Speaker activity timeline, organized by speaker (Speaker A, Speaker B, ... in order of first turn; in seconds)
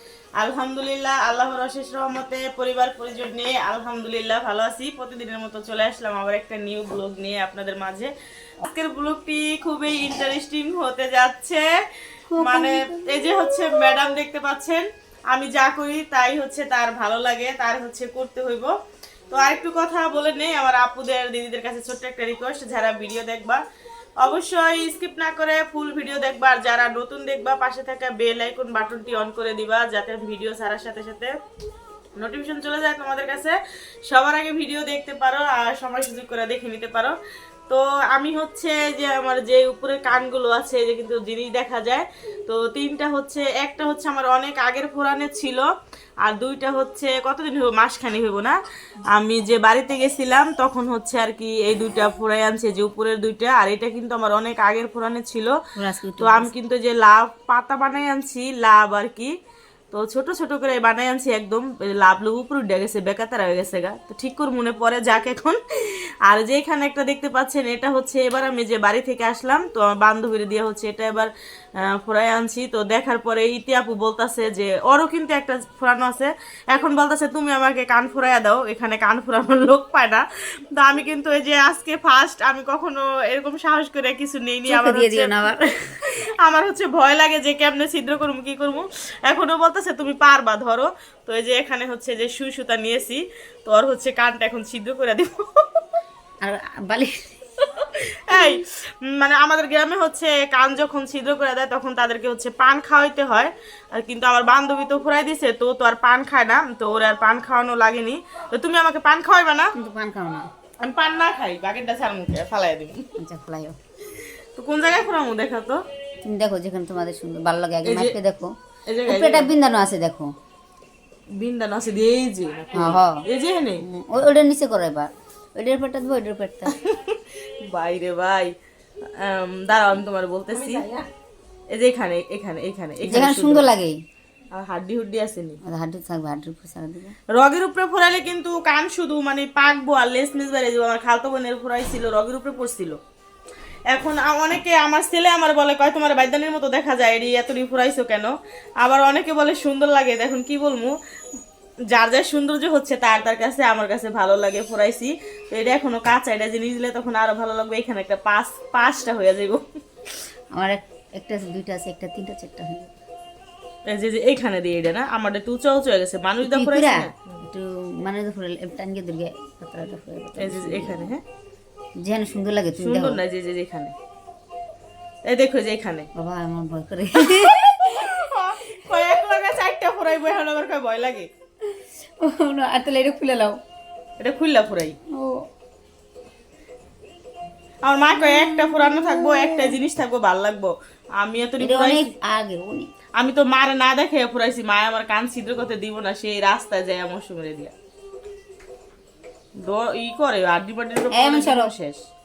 Speaker A: 0.4-11.7, 12.4-18.7, 19.3-23.6, 24.2-31.3, 32.2-33.6, 34.1-37.2, 37.7-45.6, 46.2-48.6, 49.1-55.5, 56.2-59.3, 59.9-80.2, 80.8-95.8, 98.2-109.7, 110.8-113.1, 114.1-115.8, 117.8-118.1, 118.8-119.5, 121.3-123.8, 126.7-128.5, 129.1-130.8, 131.7-133.7, 134.5-135.6, 137.3-143.0, 143.9-150.9, 151.9-159.6, 163.9-167.5, 170.4-171.2, 172.8-173.9, 175.2-176.1, 177.2-181.3, 184.2-185.0, 187.8-192.1, 193.2-197.7, 199.6-202.0
Speaker B: 12.3-14.0, 55.8-56.5, 84.7-86.1, 96.4-98.6, 109.8-110.5, 113.2-113.8, 116.2-118.5, 119.1-120.3, 122.7-123.2, 123.8-126.7, 130.5-131.1, 133.1-133.9, 135.7-137.1, 160.5-162.9, 166.4-171.1, 172.0-173.2, 176.2-178.8, 181.7-183.6, 185.1-185.4, 188.1-189.7, 191.6-192.9, 201.1-201.7